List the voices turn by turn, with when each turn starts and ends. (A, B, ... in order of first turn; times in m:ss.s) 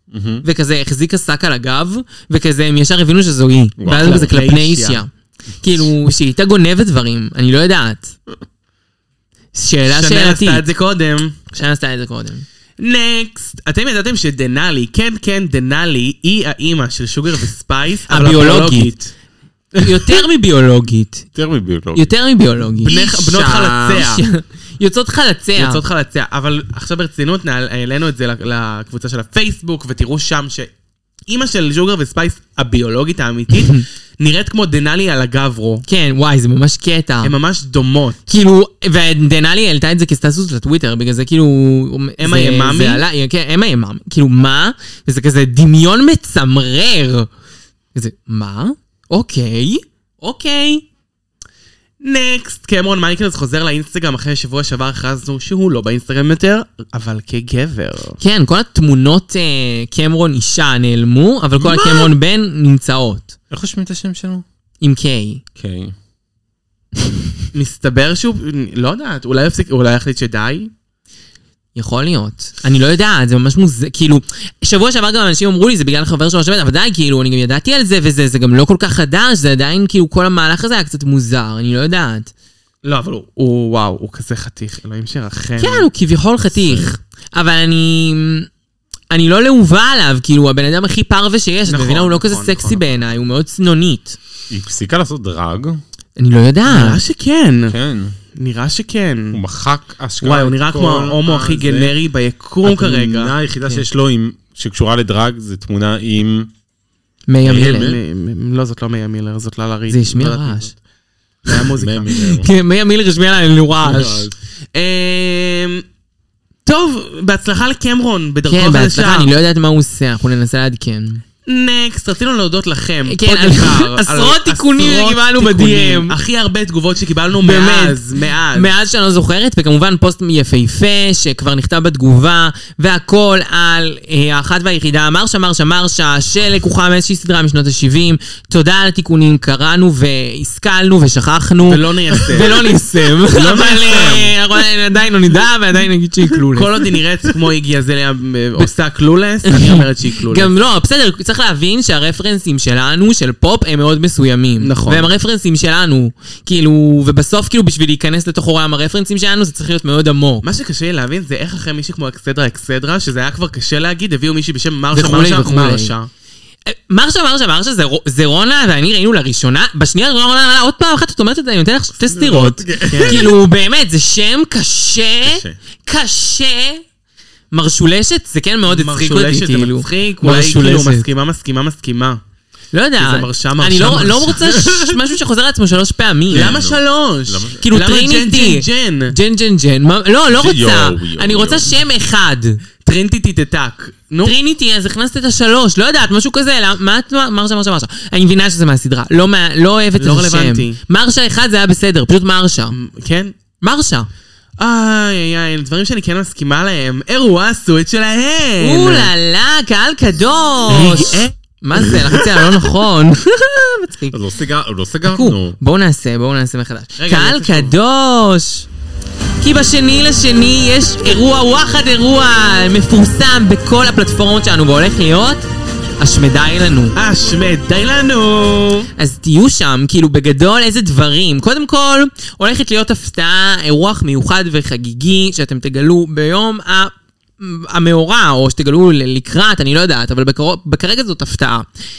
0:00.1-0:00.4 A
0:00.4-0:05.1 B
0:03.8-0:04.3 A
0:04.0-0:05.0 C
0:05.6-0:08.2 B
0:09.5-0:10.6 B
0:09.9-0:11.4 C
0:11.5-0:12.5 B
0:12.8-0:19.1 C
0:18.1-0:18.9 B
0:19.8-0:21.3 B
0:19.8-0:20.1 C
0:21.4-0:22.1 A
0:21.9-0:23.0 B
0:22.8-0:24.2 A
0:22.8-0:24.2 C
0:23.9-0:25.8 B
0:25.6-0:30.7 C
0:31.3-0:35.8 C
0:33.5-0:33.8 B
0:35.9-0:37.3 B
0:37.2-0:38.3 C
0:38.3-0:47.3 B
0:42.2-0:43.0 C
0:48.0-0:50.8 B
0:52.0-0:58.2 C
0:58.2-1:03.4 B
1:01.6-1:02.1 A
1:03.5-1:04.4 A
1:04.8-1:05.4 B
1:05.6-1:05.9 A
1:07.5-1:10.7 C
1:11.8-1:22.3 B
1:22.8-1:25.9 C
1:25.6-1:28.5 B
1:26.5-1:26.9 A
1:29.1-1:34.2 B
1:31.7-1:32.8 C
1:34.5-1:35.8 A
1:36.2-1:37.0 B
1:36.7-1:37.8 C
1:37.7-1:38.2 A
1:38.4-1:39.4 C
1:39.3-1:42.0 A
1:40.2-1:43.3 C
1:42.6-1:46.5 A
1:47.3-1:47.9 B
1:47.4-1:48.0 A
1:47.6-1:50.7 C
1:49.9-1:50.7 B
1:51.5-1:52.3 C
1:51.8-1:52.5 A
1:52.2-1:54.3 B
1:53.8-1:54.3 A
1:54.7-1:55.8 C
1:56.7-1:59.3 C
1:58.5-2:01.2 B
2:01.5-2:08.7 C
2:03.1-2:06.2 B
2:07.4-2:08.0 B
2:08.5-2:26.7 B
2:21.7-2:24.4 C
2:26.5-2:30.5 C
2:29.5-2:40.5 B
2:34.6-2:35.1 C
2:40.4-2:46.1 C
2:44.9-2:45.9 B
2:46.7-2:56.8 B
2:52.0-2:53.3 A
2:52.9-2:53.3 C
2:55.2-2:55.6 A
2:57.5-3:01.1 B
2:58.7-3:02.2 C
3:02.7-3:06.5 B
3:03.0-3:04.4 C
3:04.4-3:05.0 A
3:06.3-3:07.6 A
3:06.3-3:09.1 C
3:07.6-3:12.6 B
3:10.3-3:11.8 A
3:12.8-3:14.4 C
3:14.2-3:22.8 B
3:20.0-3:20.8 C
3:22.7-3:23.3 C
3:23.6-3:24.1 B
3:24.6-3:29.1 C
3:28.6-3:34.2 B
3:30.7-3:31.3 C
3:34.1-3:35.6 A
3:35.0-3:38.7 B
3:37.0-3:37.8 C
3:39.4-3:45.4 B
3:46.0-3:47.0 B
3:47.0-3:48.9 C
3:49.0-4:01.7 B